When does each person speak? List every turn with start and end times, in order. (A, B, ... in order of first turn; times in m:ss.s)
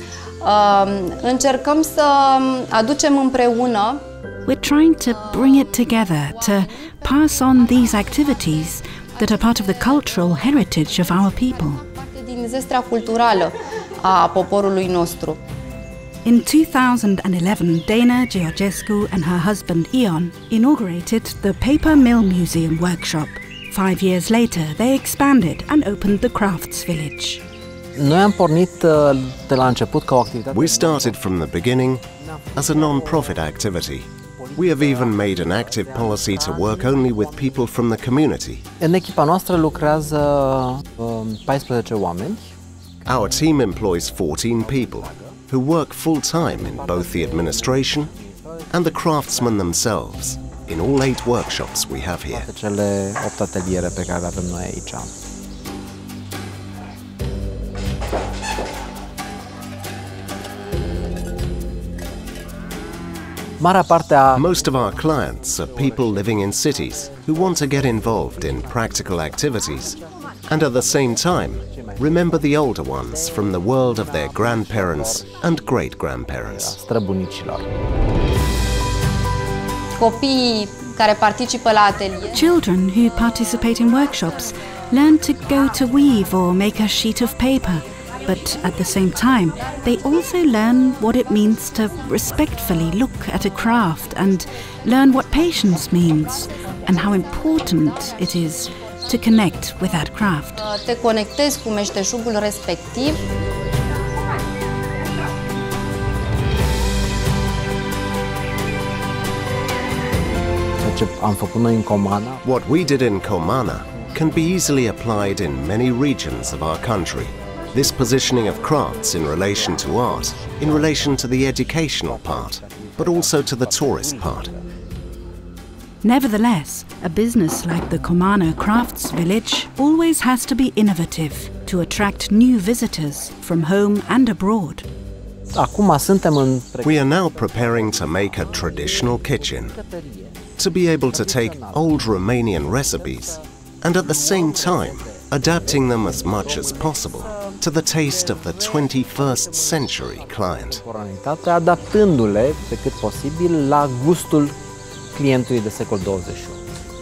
0:00.4-0:04.0 A
0:04.5-0:11.8 B
0:05.2-0:06.6 A
0:09.2-0:15.4 A
0:16.2-0:27.4 B
0:28.0-0:31.5 C
0:30.5-0:32.0 D
0:32.3-0:33.7 C
0:32.6-0:38.6 D
0:34.4-0:37.8 C
0:38.8-0:42.5 C
0:43.1-0:48.1 D
0:44.6-0:45.4 C
0:46.4-0:49.8 C
0:48.7-0:52.5 D
0:52.3-0:55.2 C
1:03.6-1:10.0 C
1:04.3-1:10.0 D
1:10.5-1:16.8 D
1:10.6-1:15.8 C
1:16.4-1:17.7 C
1:20.0-1:22.4 A
1:22.3-1:40.6 B
1:40.6-1:43.2 A
1:50.8-1:52.4 C
1:52.4-2:04.5 D
1:59.2-2:04.6 C
2:06.0-2:14.9 B
2:15.5-2:34.6 C
2:16.8-2:19.8 D
2:20.6-2:30.8 D
2:35.1-2:36.6 C